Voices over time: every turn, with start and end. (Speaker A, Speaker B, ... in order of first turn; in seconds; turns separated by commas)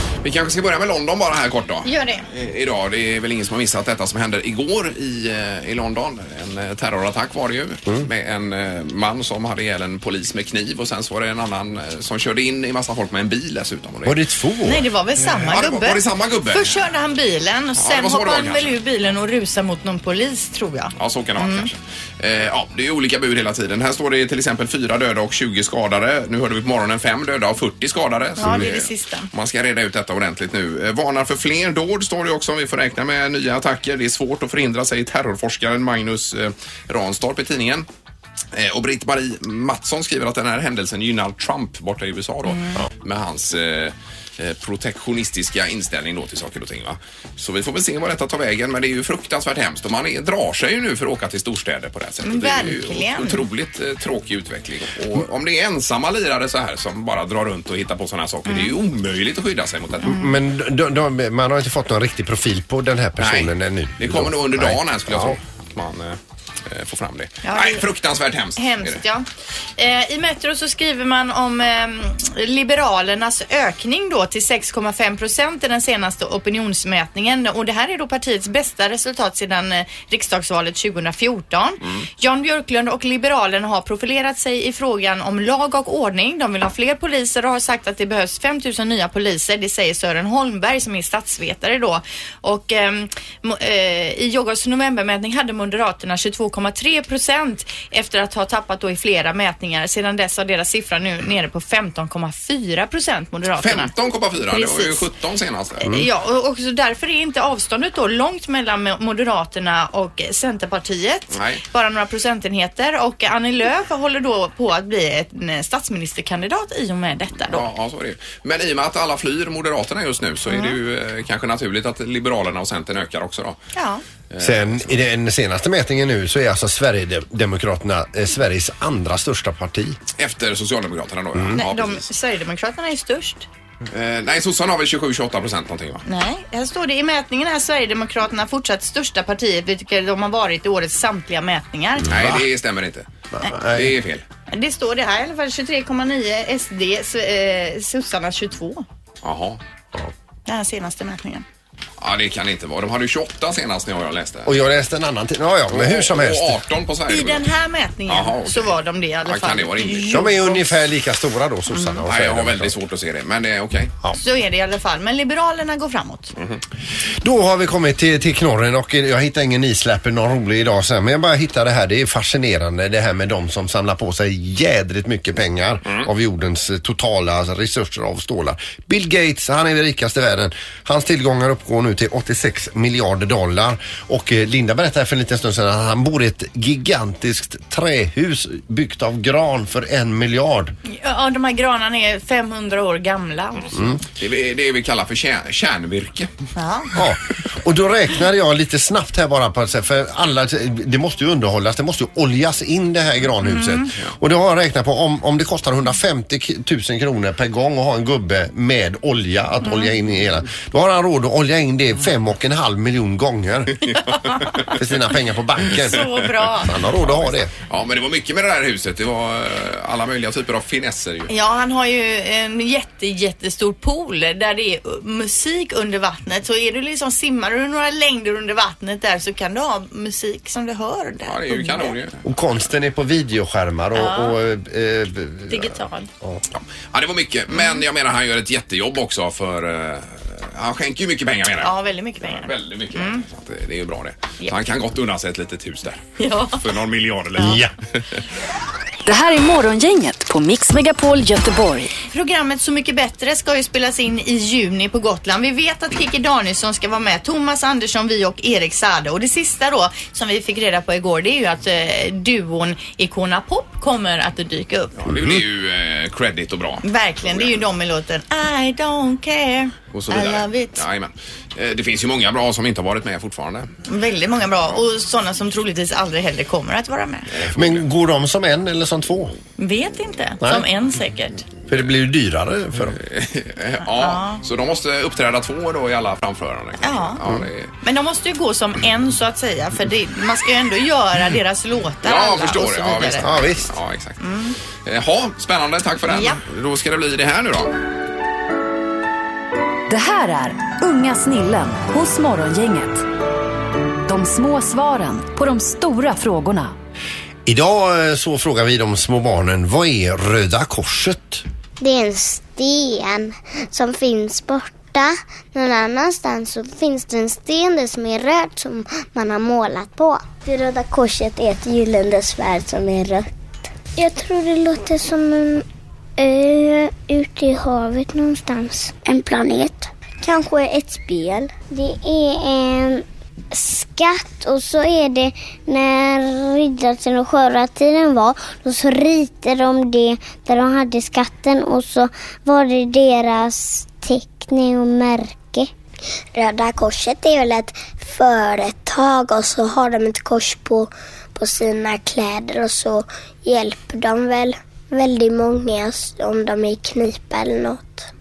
Speaker A: 0.2-14.2, Speaker B: 1.8-2.2, Speaker C: 14.0-14.8, Speaker B: 14.7-21.7, Speaker A: 15.4-16.8, Speaker A: 17.8-18.8, Speaker A: 21.0-37.9, Speaker B: 28.4-29.3, Speaker A: 38.5-60.2, Speaker B: 42.5-42.8, Speaker B: 52.2-53.4, Speaker B: 58.5-58.8, Speaker C: 60.0-65.4, Speaker B: 60.0-60.3, Speaker A: 63.2-69.0, Speaker B: 67.4-67.9, Speaker B: 68.5-69.2, Speaker B: 69.8-103.9, Speaker A: 103.6-105.9, Speaker B: 104.5-105.0, Speaker B: 105.8-117.7, Speaker A: 111.3-111.6, Speaker A: 117.5-123.6, Speaker B: 120.5-120.8, Speaker B: 123.7-124.0, Speaker A: 124.3-125.0, Speaker C: 124.4-130.0, Speaker A: 130.2-132.0, Speaker B: 131.5-133.5, Speaker A: 133.9-136.0, Speaker B: 136.0-142.1, Speaker C: 142.0-142.4, Speaker A: 142.1-143.1, Speaker C: 143.3-143.9, Speaker A: 143.7-144.2, Speaker B: 144.5-148.8, Speaker A: 149.2-149.6, Speaker B: 150.5-151.4, Speaker A: 152.0-154.5, Speaker C: 154.4-156.6, Speaker A: 155.7-157.4, Speaker B: 157.1-160.6, Speaker A: 158.1-160.2, Speaker C: 160.1-162.7, Speaker B: 161.7-162.0, Speaker A: 162.1-163.9, Speaker B: 164.2-166.3, Speaker C: 167.2-190.7, Speaker B: 190.9-193.7, Speaker C: 193.7-194.0, Speaker A: 194.2-196.3, Speaker B: 196.6-196.9, Speaker C: 196.9-213.8, Speaker B: 203.4-203.9, Speaker C: 214.7-216.1, Speaker A: 215.8-216.2, Speaker B: 215.8-216.8, Speaker C: 216.6-217.5, Speaker A: 217.0-221.3, Speaker B: 221.3-231.9, Speaker A: 231.2-232.2, Speaker C: 232.2-236.4, Speaker B: 233.9-234.3, Speaker B: 235.5-236.1, Speaker A: 236.5-248.0, Speaker B: 237.5-237.8, Speaker B: 241.6-243.2, Speaker B: 246.2-246.6, Speaker C: 247.4-247.7, Speaker D: 249.1-251.9, Speaker B: 252.1-265.1, Speaker A: 265.0-267.6, Speaker B: 266.8-270.8, Speaker A: 269.9-273.7, Speaker B: 273.9-277.3, Speaker A: 277.3-277.9, Speaker C: 277.5-279.3, Speaker B: 279.6-281.5, Speaker C: 281.7-283.0, Speaker A: 282.9-287.7, Speaker B: 283.9-284.4, Speaker B: 286.8-287.2, Speaker B: 287.8-293.3, Speaker A: 292.0-294.2, Speaker C: 293.2-293.7, Speaker B: 294.2-294.6, Speaker A: 294.8-297.7, Speaker B: 296.1-296.4, Speaker D: 299.9-303.0, Speaker D: 304.1-306.7, Speaker C: 307.4-311.4, Speaker E: 311.8-323.3, Speaker E: 323.9-325.6, Speaker E: 326.2-345.7, Speaker E: 346.3-358.1